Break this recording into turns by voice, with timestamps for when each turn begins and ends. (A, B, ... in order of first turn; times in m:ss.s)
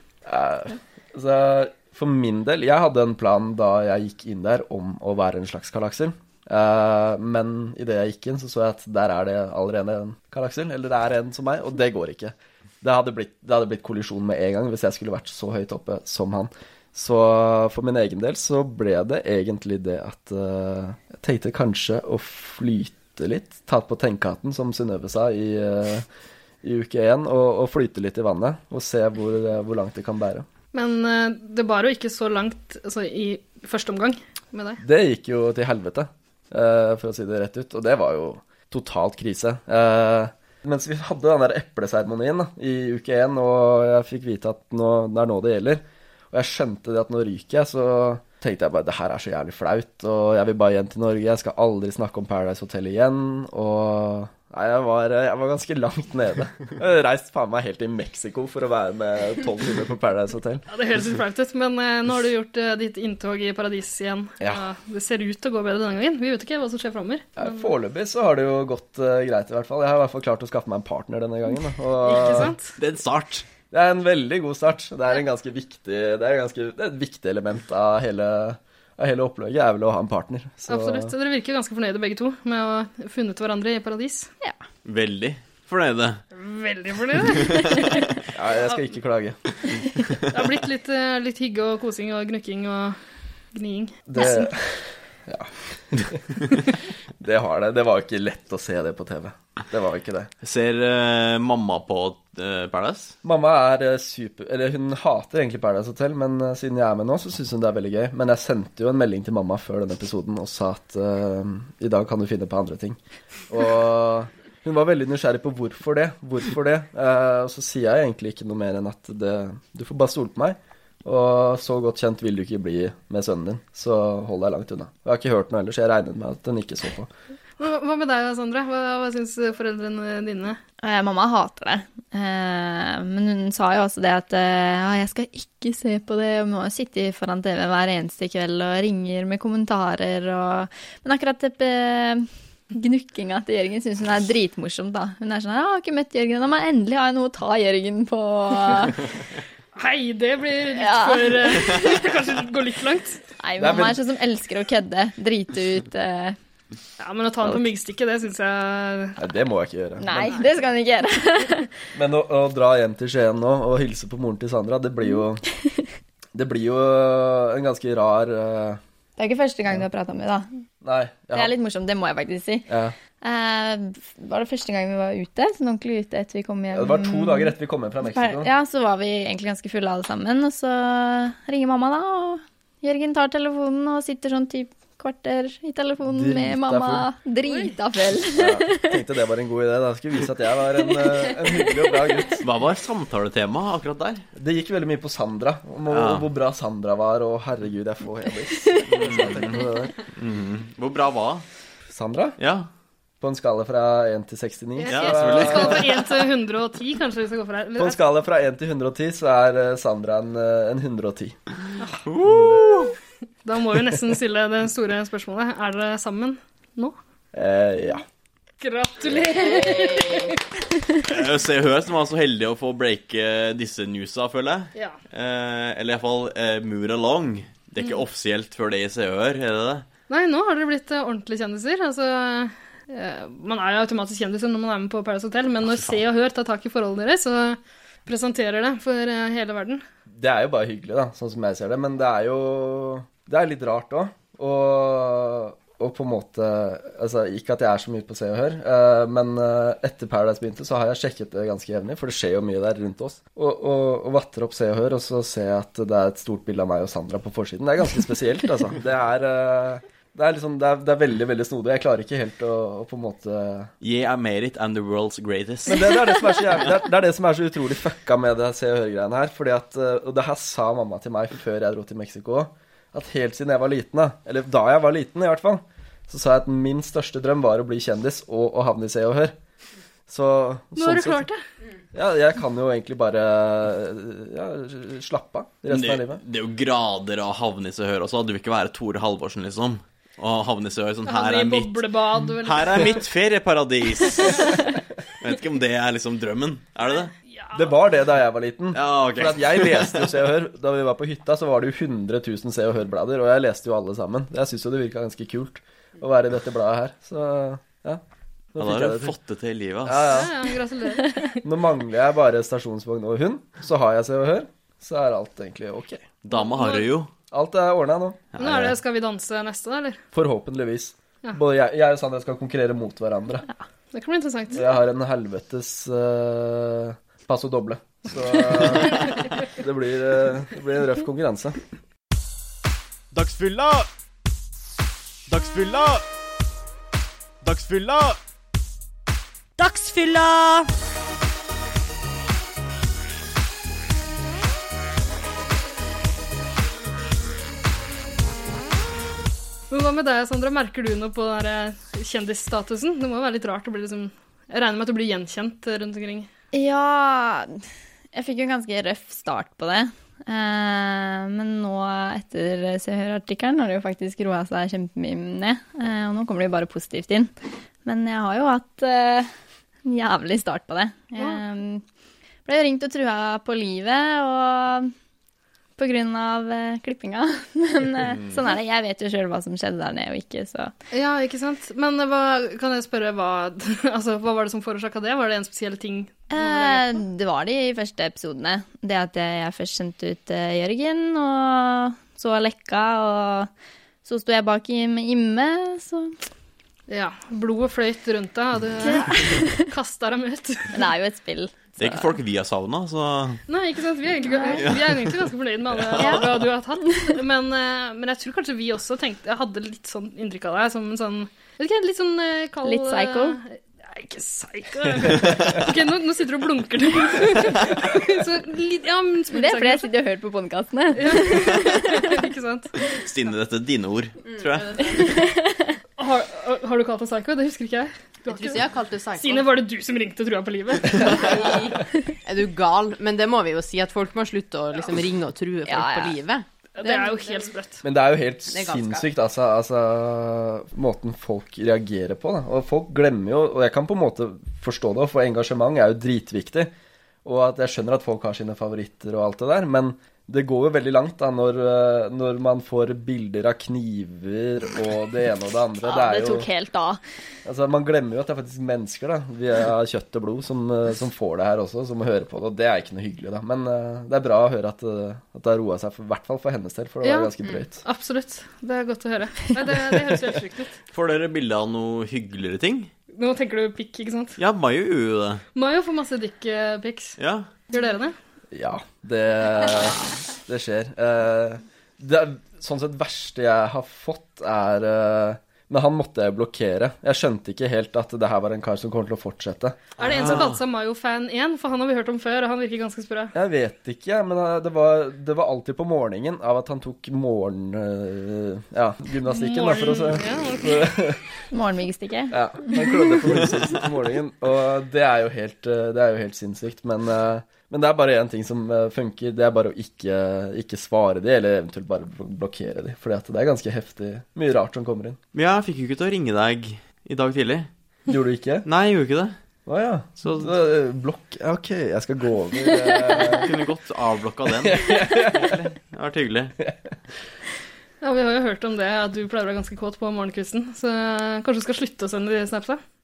0:00.3-0:26.1 A
0:26.6-0:30.5 A
0:30.7-0:34.8 B
0:34.8-1:00.6 A
1:00.7-1:07.7 B
1:07.4-1:12.5 A
1:12.0-1:12.8 B
1:12.8-1:13.4 C
1:13.7-1:21.1 A
1:20.7-1:24.3 B
1:24.8-1:26.2 C
1:26.3-1:28.0 B
1:28.3-1:29.4 A
1:30.3-1:33.0 B
1:33.5-1:34.2 B
1:34.1-1:36.6 A
1:34.2-1:34.5 D
1:37.2-1:40.3 A
1:40.4-1:43.2 C
1:43.2-1:53.0 A
1:53.5-2:07.1 A
2:07.6-2:10.6 B
2:10.8-2:29.0 D
2:29.8-2:33.2 B
2:30.8-2:31.8 D
2:33.4-2:36.4 D
2:33.6-2:34.0 A
2:37.0-2:39.2 B
2:39.2-2:40.4 A
2:40.0-2:41.7 D
2:42.0-2:45.4 A
2:46.4-2:48.8 A
2:49.2-2:50.5 D
2:50.8-2:51.6 A
2:51.3-3:09.0 D
2:56.7-2:58.5 A
3:06.1-3:07.1 A
3:07.5-3:07.7 B
3:08.4-3:12.4 A
3:11.0-3:11.9 D
3:12.4-3:14.2 C
3:14.4-3:19.9 A
3:15.9-3:16.3 C
3:18.9-3:21.5 C
3:21.9-3:22.4 A
3:22.4-3:22.7 C
3:23.2-3:26.0 A
3:24.8-3:28.0 B
3:24.9-3:26.0 C
3:27.8-3:31.4 A
3:31.8-3:32.0 B
3:32.1-3:32.9 C
3:33.4-3:37.0 B
3:37.3-3:38.0 A
3:38.6-3:40.4 B
3:39.5-3:40.2 D
3:41.0-3:49.9 C
3:50.1-3:59.8 B
4:00.1-4:23.7 A
4:23.8-4:25.9 C
4:25.7-4:39.3 A
4:40.1-4:41.3 A
4:40.8-4:41.4 B
4:41.9-4:46.2 A
4:45.7-4:51.9 C
4:51.1-4:53.0 B
4:52.4-4:54.6 C
4:54.2-4:54.6 B
4:55.2-4:57.1 C
4:56.9-4:57.8 B
4:57.6-5:08.0 A
4:58.7-5:00.2 C
5:08.5-5:09.2 A
5:08.6-5:10.1 C
5:09.8-5:10.3 A
5:10.1-5:11.4 B
5:11.4-5:16.1 A
5:16.2-5:17.1 C
5:16.3-5:16.9 B
5:17.3-5:18.4 A
5:18.3-5:18.8 C
5:18.4-5:20.0 B
5:20.1-5:23.5 A
5:23.9-5:24.6 B
5:24.5-5:31.6 A
5:49.7-5:56.3 B
5:56.5-5:57.6 D
5:58.1-6:07.3 D
6:07.8-6:09.3 D
6:09.9-6:11.8 D
6:12.5-6:14.9 D
6:15.8-6:20.7 D
6:20.9-6:27.0 B
6:26.3-6:33.5 D
6:34.0-6:36.2 D
6:36.9-6:40.8 B
6:38.8-6:39.6 D
6:40.7-6:42.1 D
6:41.8-6:43.4 C
6:43.5-6:59.9 B
6:44.4-6:44.6 D
6:44.6-6:45.2 C
6:45.9-6:46.3 C
6:46.0-6:46.3 D
6:52.6-6:53.4 D
6:59.3-7:02.1 D
7:00.9-7:02.8 B
7:02.9-7:04.7 C
7:04.3-7:05.2 E
7:05.0-7:05.7 D
7:06.0-7:08.6 B
7:08.3-7:09.5 E
7:09.2-7:11.5 B
7:11.2-7:16.4 E
7:15.7-7:16.2 D
7:16.8-7:17.8 B
7:17.8-7:26.7 A
7:18.5-7:19.1 E
7:27.2-7:36.5 A
7:35.8-7:37.0 D
7:37.4-7:47.8 A
7:47.0-7:50.8 B
7:50.9-7:52.9 C
7:53.1-7:54.4 B
7:54.4-7:55.4 C
7:55.6-7:57.2 B
7:57.2-7:57.5 C
7:57.7-7:58.2 B
7:58.5-8:10.5 A
8:10.0-8:10.6 C
8:10.0-8:13.3 B
8:13.3-8:21.2 A
8:19.3-8:21.0 B
8:21.5-8:23.2 D
8:22.3-8:35.2 A
8:35.3-8:37.7 C
8:38.1-8:38.7 A
8:38.6-8:39.4 C
8:39.7-8:43.5 A
8:40.2-8:40.5 C
8:43.3-8:46.6 C
8:44.6-8:45.5 A
8:48.0-8:52.8 B